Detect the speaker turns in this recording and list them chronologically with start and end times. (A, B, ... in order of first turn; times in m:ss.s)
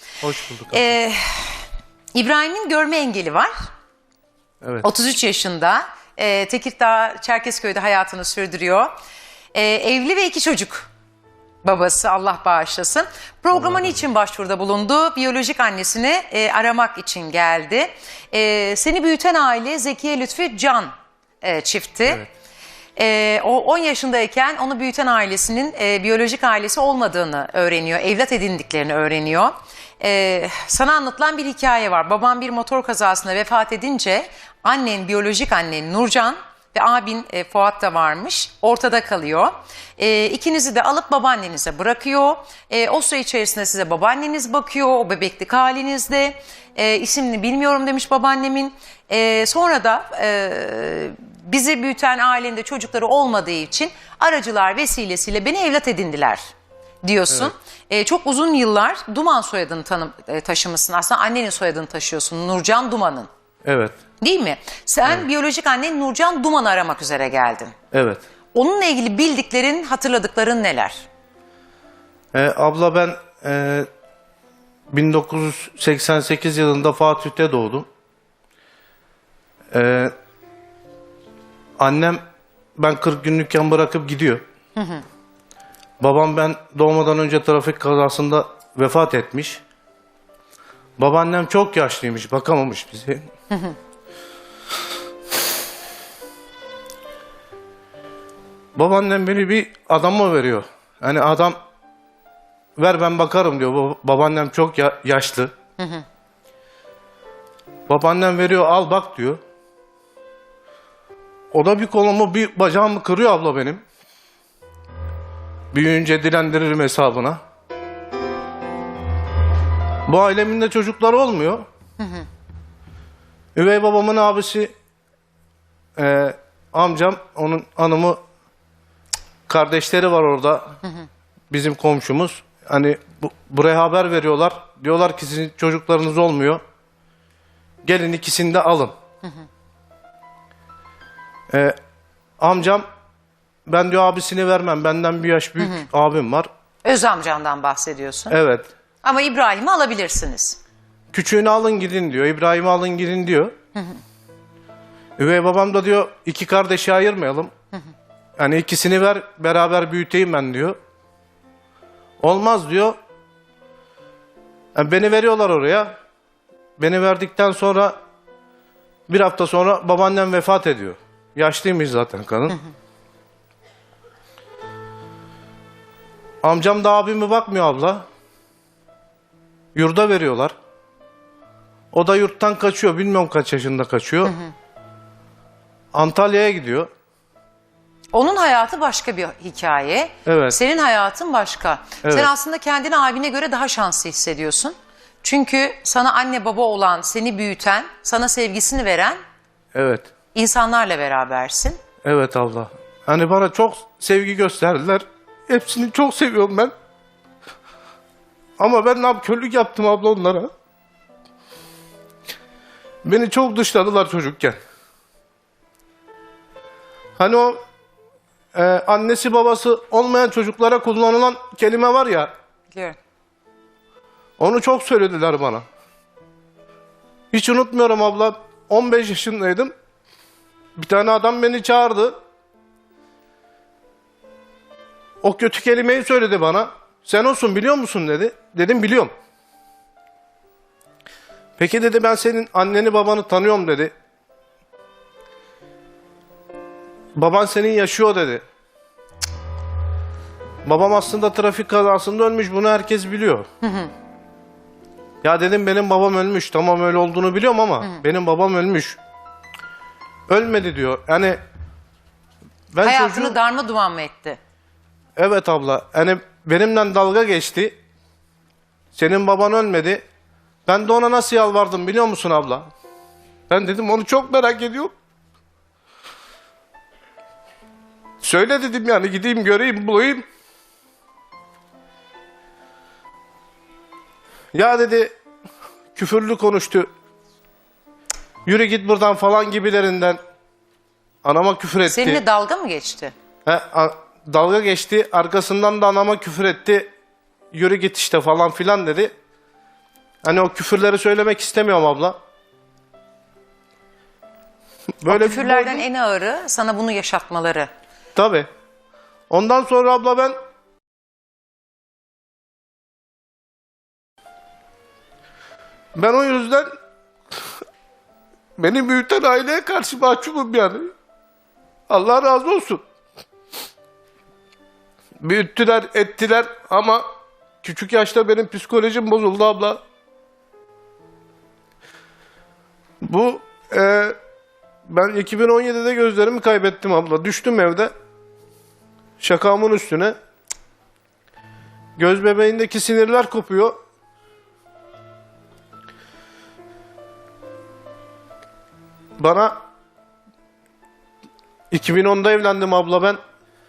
0:00.2-0:00.9 A
0:00.7-0:03.5 B
0:04.6-0:04.9 A
0:04.8-0:08.9 B
0:09.5-0:10.9 B
0:11.6-0:22.2 B
0:13.5-0:14.0 A
0:23.0-0:56.5 B
0:57.0-1:03.3 B
1:03.6-1:04.0 A
1:04.2-1:07.7 B
1:07.9-1:08.2 A
1:08.6-1:11.1 B
1:12.3-1:13.9 A
1:14.9-1:17.9 A
1:19.7-1:20.1 A
1:21.8-1:22.2 A
1:22.8-1:24.4 A
1:24.8-1:25.0 B
1:26.0-1:29.6 A
1:31.0-1:33.3 A
1:33.5-1:33.8 B
1:38.8-1:41.6 A
1:42.8-1:45.5 A
1:45.8-1:46.0 B
1:47.9-1:49.4 A
1:51.5-1:53.8 A
1:55.7-1:57.4 A
2:00.1-2:01.7 A
2:02.0-2:02.3 B
2:03.6-2:04.7 A
2:06.0-2:08.2 A
2:09.5-2:10.8 A
2:11.5-2:16.6 A
2:17.8-2:19.0 A
2:21.5-2:21.8 A
2:22.4-2:22.9 A
2:23.7-2:26.5 A
2:26.8-2:28.4 B
2:28.3-2:28.7 A
2:29.0-2:30.6 B
2:31.1-2:33.6 A
2:35.2-2:37.5 A
2:38.4-2:40.8 A
2:42.2-2:43.0 A
2:44.8-2:46.0 A
2:46.8-2:48.0 A
2:49.1-2:52.6 A
2:56.4-2:58.1 A
2:59.8-3:00.6 A
3:01.9-3:04.4 A
3:04.2-3:04.5 B
3:05.9-3:06.9 A
3:08.1-3:19.2 B
3:10.2-3:10.6 A
3:12.0-3:12.3 A
3:19.7-3:20.1 A
3:20.3-3:21.8 B
3:22.0-3:26.7 A
3:28.6-3:30.5 A
3:33.0-3:34.6 A
3:37.2-3:37.6 A
3:38.5-3:42.3 A
3:42.7-3:43.0 B
3:44.4-3:45.7 A
3:47.3-3:49.7 A
3:50.8-3:52.2 A
3:55.2-3:59.1 A
4:01.6-4:03.9 A
4:07.2-4:08.4 A
4:10.6-4:13.5 A
4:13.6-4:13.9 B
4:15.2-4:19.0 A
4:20.3-4:21.4 A
4:22.7-4:23.4 A
4:22.8-4:24.4 B
4:25.2-4:27.8 A
4:28.9-4:30.0 A
4:30.7-4:32.7 A
4:33.5-4:34.9 A
4:38.2-4:40.3 A
4:44.5-4:45.2 A
4:46.0-4:46.9 A
4:48.4-4:50.2 A
4:51.2-4:52.2 A
4:51.9-4:53.1 B
4:53.4-4:56.9 A
4:57.5-4:59.1 A
5:00.2-5:02.2 A
5:05.0-5:05.8 A
5:05.1-5:07.7 B
5:08.2-5:08.5 A
5:09.3-5:10.4 A
5:16.0-5:16.7 A
5:18.6-5:20.9 A
5:21.9-5:22.8 A
5:25.2-5:27.1 A
5:27.6-5:29.8 A
5:33.0-5:34.2 A
5:34.9-5:37.9 A
5:39.2-5:40.2 A
5:42.0-5:43.8 A
5:49.2-5:49.6 A
5:51.7-5:53.2 A